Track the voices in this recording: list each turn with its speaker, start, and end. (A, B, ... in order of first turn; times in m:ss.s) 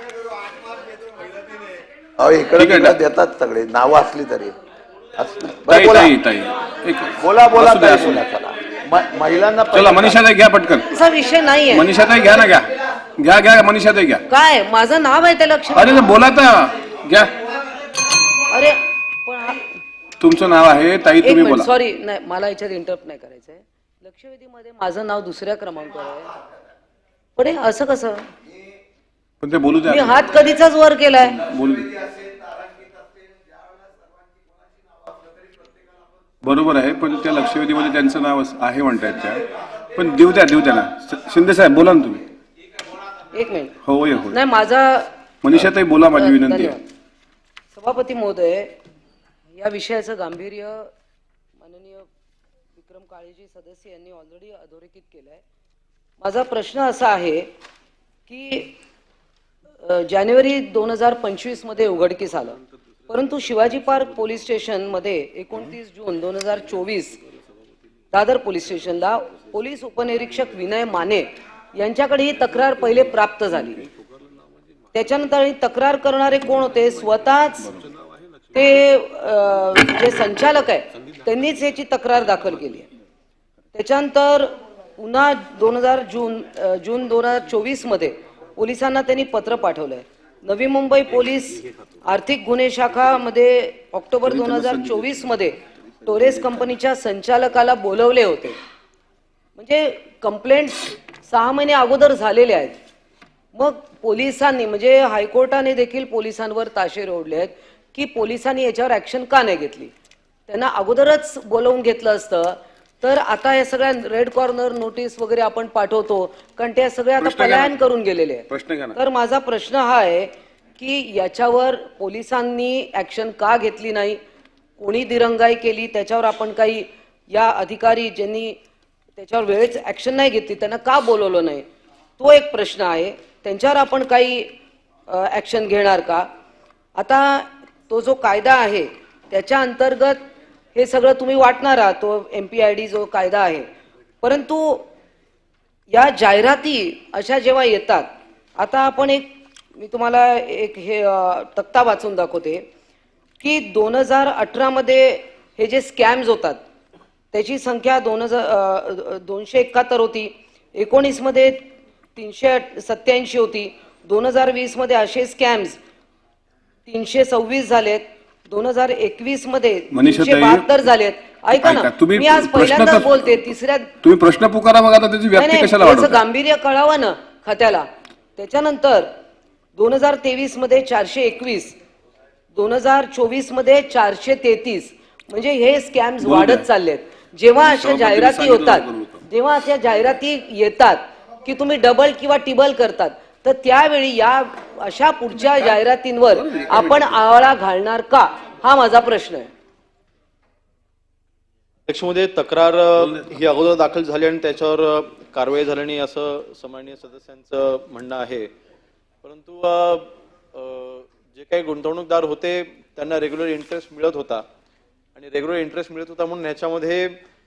0:00.6-0:01.8 A
0:02.2-0:04.6 B
0:02.6-0:03.0 C
0:05.2-0:06.2 B
0:05.7-0:08.2 C
0:07.2-0:10.2 B
0:09.7-0:10.9 C
0:10.9-0:11.9 A
0:11.7-0:14.2 C
0:14.3-0:16.1 A
0:15.7-0:17.4 C
0:18.5-0:19.6 A
0:20.2-0:21.7 C
0:21.2-0:26.4 A
0:27.4-0:28.3 A
0:29.4-0:30.3 C
0:29.8-0:31.4 A
0:31.4-0:32.1 C
0:36.4-0:42.2 C
0:43.3-0:43.8 A
0:43.8-0:44.4 C
0:44.3-0:45.1 A
0:45.4-0:46.8 C
0:46.2-0:46.8 A
0:47.7-0:48.8 A
0:49.5-0:50.9 A
0:51.6-0:52.1 A
0:52.8-0:55.4 A
0:56.2-0:57.5 A
0:58.3-0:58.7 A
0:59.8-1:07.2 A
1:08.1-1:13.9 A
1:14.9-1:17.7 A
1:18.5-1:22.9 A
1:23.7-1:38.6 A
1:34.3-1:35.2 C
1:36.1-1:36.6 C
1:39.6-1:42.8 A
1:43.5-1:49.9 A
1:50.5-2:04.2 A
1:57.2-1:57.8 C
1:58.5-1:59.0 C
2:04.8-2:08.6 A
2:09.2-2:11.7 A
2:12.2-2:14.6 A
2:15.1-2:16.3 A
2:17.0-2:20.2 A
2:20.8-2:23.7 A
2:24.2-2:24.9 A
2:25.9-2:32.7 A
2:33.4-2:36.6 A
2:37.3-2:45.8 A
2:46.9-2:53.9 A
2:49.9-2:50.7 C
2:51.6-2:53.5 C
2:54.0-2:56.2 C
2:55.4-2:59.1 A
2:59.8-3:01.8 A
3:02.5-3:19.5 A
3:06.2-3:06.6 C
3:07.6-3:09.2 C
3:16.4-3:17.2 C
3:21.9-3:28.5 D
3:29.2-3:34.5 D
3:35.2-3:37.2 D